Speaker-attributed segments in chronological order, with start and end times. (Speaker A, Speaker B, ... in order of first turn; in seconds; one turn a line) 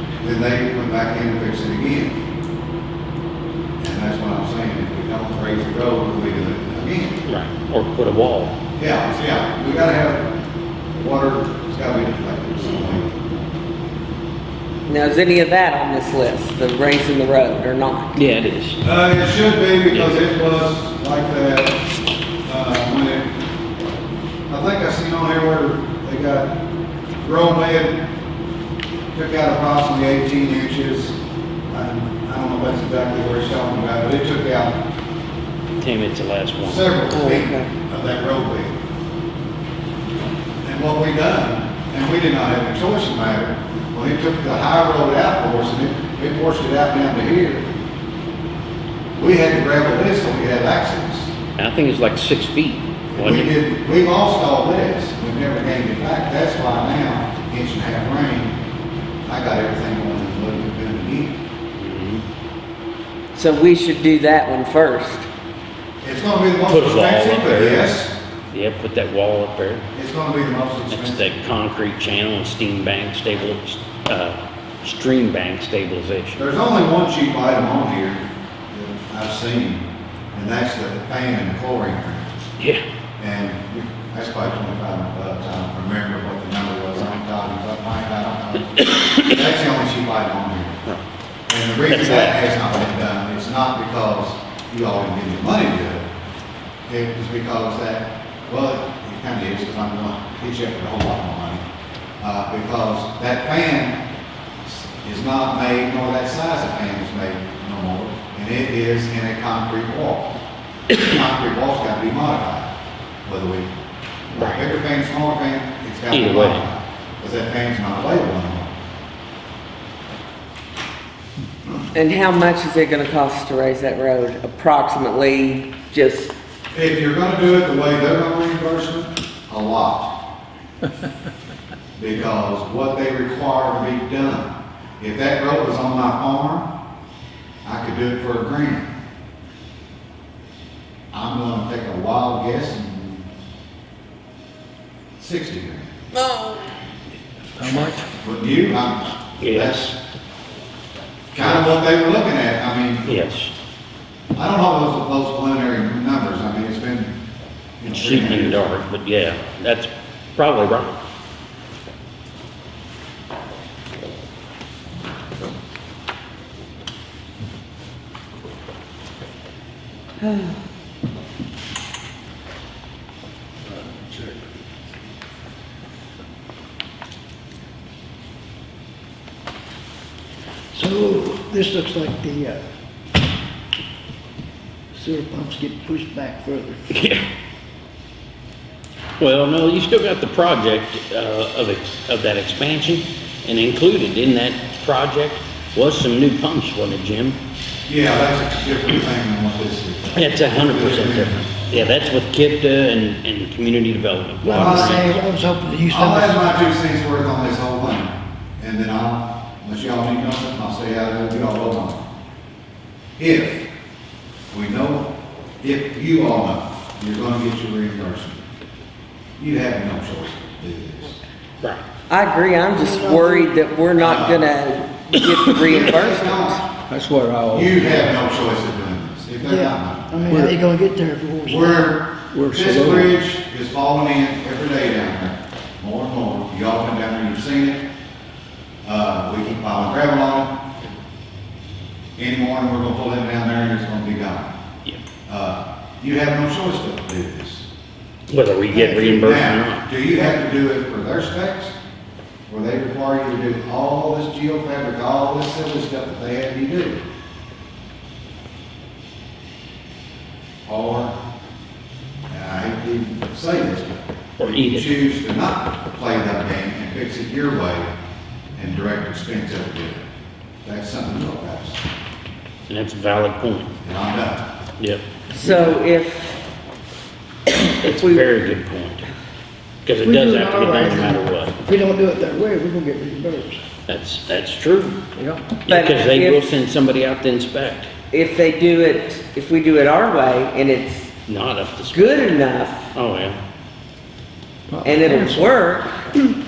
Speaker A: 0.2-2.2
Speaker A: 3.8-7.2
Speaker B: 7.2-8.5
Speaker A: 8.8-10.3
Speaker A: 10.9-13.3
Speaker C: 14.8-18.2
Speaker B: 18.1-18.8
Speaker A: 18.8-21.8
Speaker B: 19.9-20.2
Speaker A: 22.4-23.4
Speaker A: 24.5-26.6
Speaker A: 27.2-28.1
Speaker A: 29.1-31.2
Speaker A: 31.7-34.8
Speaker B: 35.8-37.0
Speaker A: 36.6-38.7
Speaker C: 37.1-37.7
Speaker A: 40.6-47.7
Speaker A: 49.1-51.3
Speaker B: 51.6-53.5
Speaker A: 53.1-58.6
Speaker A: 59.2-61.4
Speaker B: 61.8-62.2
Speaker C: 63.3-65.3
Speaker A: 66.0-68.1
Speaker B: 66.7-68.0
Speaker B: 68.5-69.9
Speaker A: 69.9-71.4
Speaker B: 70.9-76.4
Speaker A: 76.4-82.3
Speaker A: 83.2-90.8
Speaker A: 91.5-96.1
Speaker B: 91.9-92.4
Speaker A: 96.9-101.6
Speaker A: 102.2-104.0
Speaker A: 104.6-110.3
Speaker A: 110.9-112.7
Speaker A: 113.2-113.7
Speaker A: 114.3-118.7
Speaker B: 114.4-114.6
Speaker B: 116.1-116.6
Speaker C: 121.9-126.3
Speaker A: 126.7-130.1
Speaker A: 132.0-136.7
Speaker A: 137.6-138.9
Speaker A: 141.1-143.3
Speaker A: 145.2-146.0
Speaker C: 146.2-146.6
Speaker A: 148.1-150.0
Speaker B: 149.4-149.9
Speaker A: 151.3-153.1
Speaker B: 153.1-153.5
Speaker A: 154.3-157.2
Speaker A: 157.8-158.7
Speaker B: 157.9-160.9
Speaker C: 170.2-170.5
Speaker D: 173.7-174.5
Speaker D: 180.7-182.6
Speaker D: 184.9-186.8
Speaker B: 186.9-187.2
Speaker B: 189.2-197.4
Speaker A: 197.8-201.6
Speaker B: 200.2-205.2
Speaker D: 204.4-206.6
Speaker A: 204.5-205.2
Speaker A: 205.9-212.1
Speaker A: 213.2-213.7
Speaker A: 214.5-218.4
Speaker A: 219.4-221.2
Speaker C: 222.1-226.7
Speaker D: 222.7-223.5
Speaker A: 223.9-224.6
Speaker A: 225.5-226.6
Speaker E: 226.9-227.8
Speaker A: 227.5-230.5
Speaker D: 229.4-232.0
Speaker A: 231.5-237.8
Speaker E: 232.3-233.2
Speaker A: 238.8-240.6
Speaker A: 242.2-244.5
Speaker A: 245.3-247.7
Speaker B: 248.3-249.8
Speaker A: 248.7-251.8
Speaker A: 252.5-257.0
Speaker A: 260.6-261.1
Speaker A: 262.3-267.9
Speaker B: 264.4-265.0
Speaker A: 268.6-270.1
Speaker A: 270.6-271.8
Speaker B: 272.7-273.7
Speaker A: 273.8-274.5
Speaker C: 275.3-276.4
Speaker B: 277.8-279.1
Speaker C: 277.9-278.2
Speaker B: 279.8-281.6
Speaker D: 280.0-283.6
Speaker B: 283.9-285.0
Speaker B: 285.6-287.9
Speaker C: 285.7-286.5
Speaker C: 288.1-291.1
Speaker B: 291.3-292.4
Speaker C: 291.9-292.9
Speaker B: 292.9-293.4
Speaker E: 294.7-295.5
Speaker C: 294.8-295.9